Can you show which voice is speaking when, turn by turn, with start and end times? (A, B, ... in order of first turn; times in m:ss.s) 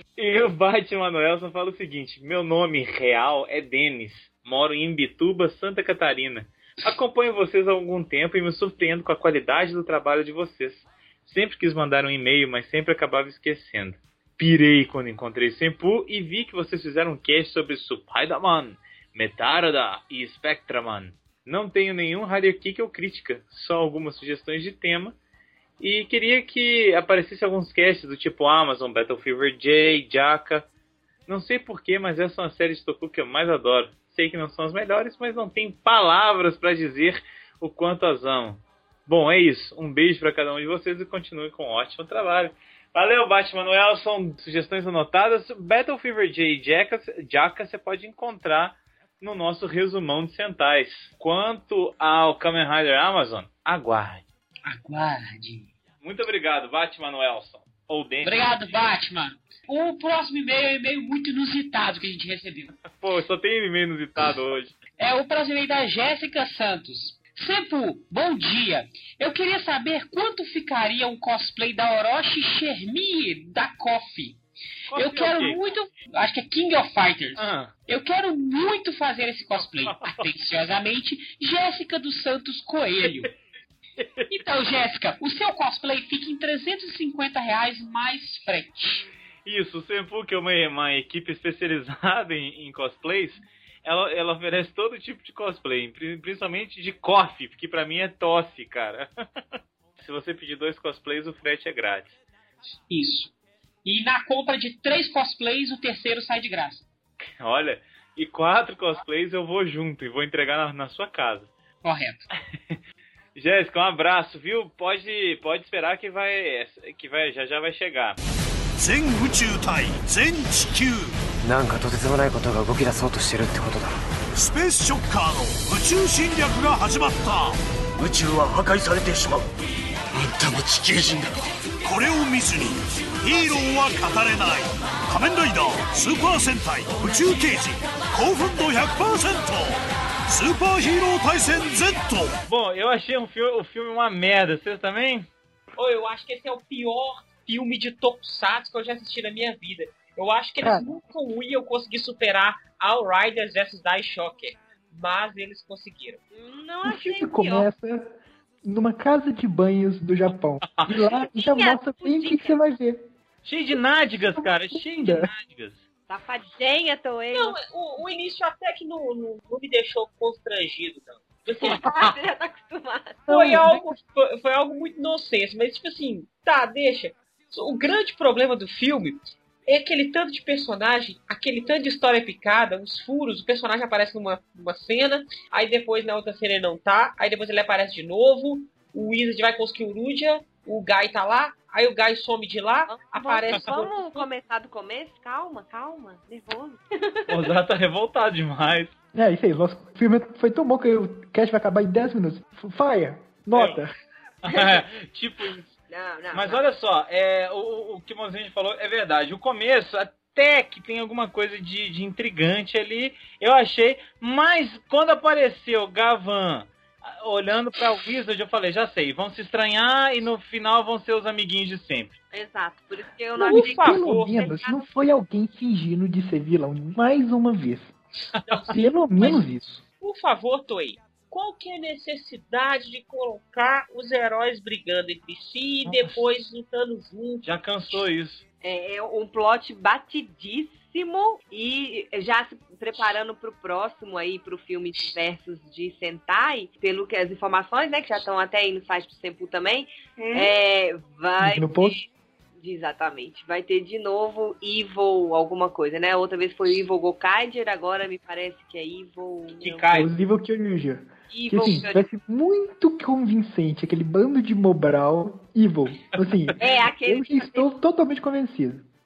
0:00.2-0:25.2 A
0:25.8-0:30.7 A
0:31.3-0:54.2 A
0:54.6-0:55.7 B
0:56.0-0:58.7 A
0:58.2-1:02.8 B
1:02.9-1:04.8 A
1:05.0-1:23.3 B
1:14.9-1:15.6 A
1:17.4-1:17.7 A
1:19.9-1:20.2 A
1:24.0-1:24.3 A
1:24.3-1:29.1 B
1:29.4-1:39.1 A
1:40.0-1:42.2 A
1:42.9-1:43.3 B
1:43.8-1:46.9 B
1:47.3-1:51.5 A
1:51.8-1:52.2 B
1:53.4-1:58.2 A
1:58.8-2:01.2 C
2:01.4-2:04.0 D
2:04.3-2:07.6 C
2:08.0-2:09.5 D
2:10.1-2:11.3 D
2:11.8-2:22.4 C
2:22.5-2:25.2 A
2:25.8-2:36.2 E
2:30.6-2:30.9 F
2:36.3-2:37.7 G
2:36.8-2:38.1 F
2:38.6-2:43.1 F
2:41.3-2:42.6 G
2:43.4-2:45.8 A
2:44.1-2:45.3 F
2:46.1-2:47.6 G
2:47.3-2:51.8 E
2:51.6-2:53.3 G
2:53.3-2:53.9 F
2:53.3-3:14.3 E
3:12.9-3:17.3 G
3:17.3-3:18.9 A
3:19.1-3:23.9 F
3:23.5-3:23.8 A
3:24.4-3:25.7 A
3:25.9-3:26.6 G
3:26.3-3:42.1 A
3:42.3-3:44.8 G
3:43.4-3:44.4 E
3:43.4-3:47.9 F
3:48.5-3:49.4 E
3:48.7-3:49.8 F
3:50.0-3:57.5 E
3:55.8-3:56.2 A
3:57.4-3:58.4 A
3:58.6-4:19.8 G
4:10.2-4:10.5 E
4:11.4-4:12.0 F
4:19.6-4:20.1 A
4:19.8-4:28.8 F
4:21.3-4:22.0 G
4:26.6-4:27.7 G